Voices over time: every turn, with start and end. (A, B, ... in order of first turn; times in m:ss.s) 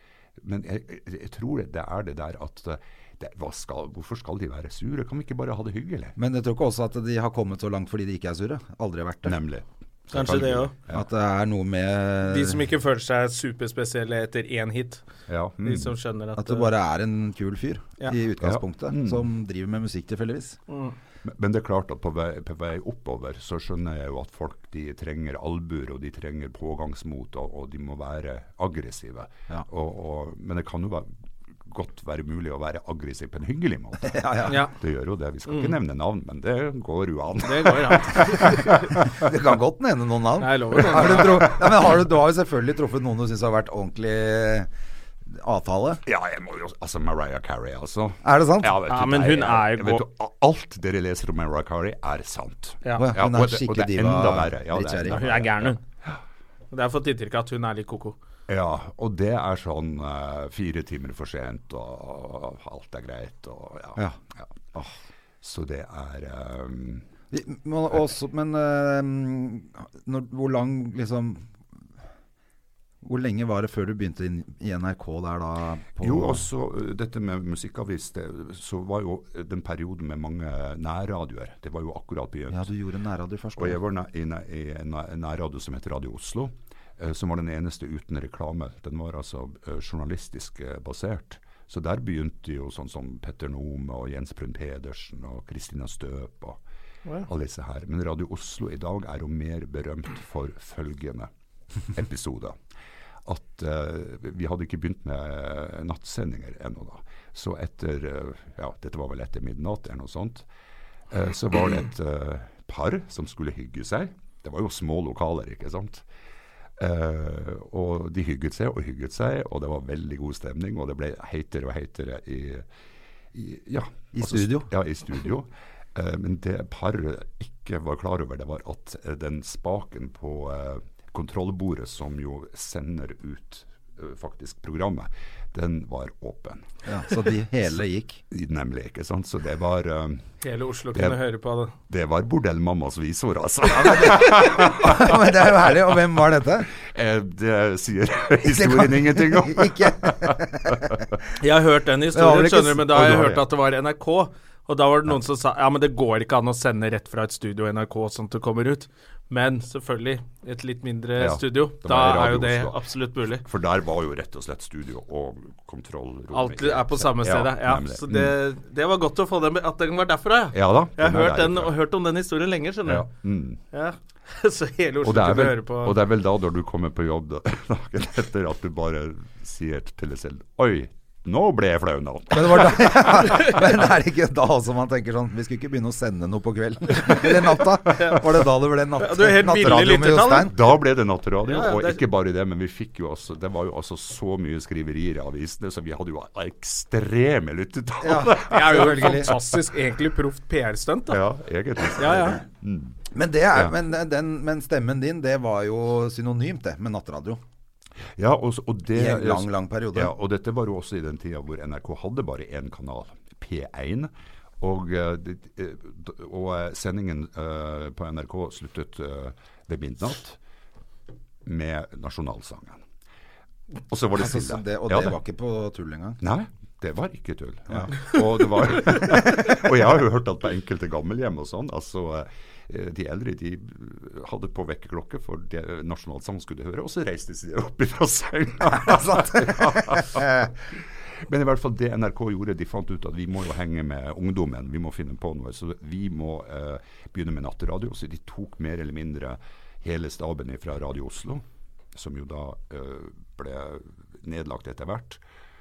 0:00.4-0:06.2 A
0:06.2-0:09.4 B
0:09.2-0:11.0 A
0:10.1-0:10.7 C
0:10.9-0:12.6 B
0:12.2-0:15.0 C
0:15.3-0:15.9 A
0:15.6-0:16.7 C
0:16.4-0:20.6 B
0:18.4-0:19.3 A
0:20.7-0:20.9 C
0:21.2-0:31.1 A
0:31.6-0:39.3 A
0:34.0-0:34.6 B
0:34.5-0:34.7 C
0:35.5-0:35.7 C
0:37.4-0:38.9 C
0:39.1-0:44.7 B
0:40.4-0:41.5 C
0:41.2-0:41.6 A
0:45.2-0:46.0 B
0:46.0-0:56.2 A
0:48.2-0:48.8 B
0:48.9-0:50.0 C
0:53.0-0:55.5 B
0:55.1-0:55.8 C
0:56.7-0:58.2 C
0:58.5-1:04.5 A
1:05.4-1:07.0 A
1:07.3-1:11.5 B
1:13.0-1:16.4 B
1:16.0-1:22.7 A
1:22.5-1:23.8 B
1:23.6-1:36.6 A
1:37.2-1:41.3 A
1:41.9-1:42.6 A
1:43.2-1:50.4 A
1:51.1-1:56.0 A
1:56.8-2:02.6 A
2:03.3-2:16.7 A
2:04.1-2:04.7 B
2:16.9-2:18.2 B
2:18.3-2:20.3 A
2:20.4-2:21.7 C
2:20.9-2:21.2 A
2:21.9-2:25.4 A
2:23.7-2:26.7 B
2:26.8-2:31.1 A
2:28.4-2:31.0 B
2:31.4-2:43.4 C
2:32.1-2:32.9 B
2:32.9-2:33.4 A
2:41.2-2:42.8 A
2:43.4-2:48.3 A
2:46.3-2:53.1 C
2:50.5-2:51.8 A
2:52.8-2:53.6 A
2:53.7-2:56.0 C
2:55.0-3:03.5 A
3:02.3-3:10.6 B
3:07.9-3:08.2 C
3:09.0-3:10.5 C
3:10.3-3:19.5 A
3:11.4-3:12.0 C
3:18.0-3:19.4 B
3:18.3-3:21.2 C
3:21.1-3:23.0 A
3:22.0-3:22.4 C
3:23.1-3:27.4 B
3:28.2-3:40.4 A
3:28.9-3:30.1 B
3:41.4-3:42.8 A
3:43.9-3:45.2 A
3:44.2-3:46.2 B
3:46.2-4:15.2 A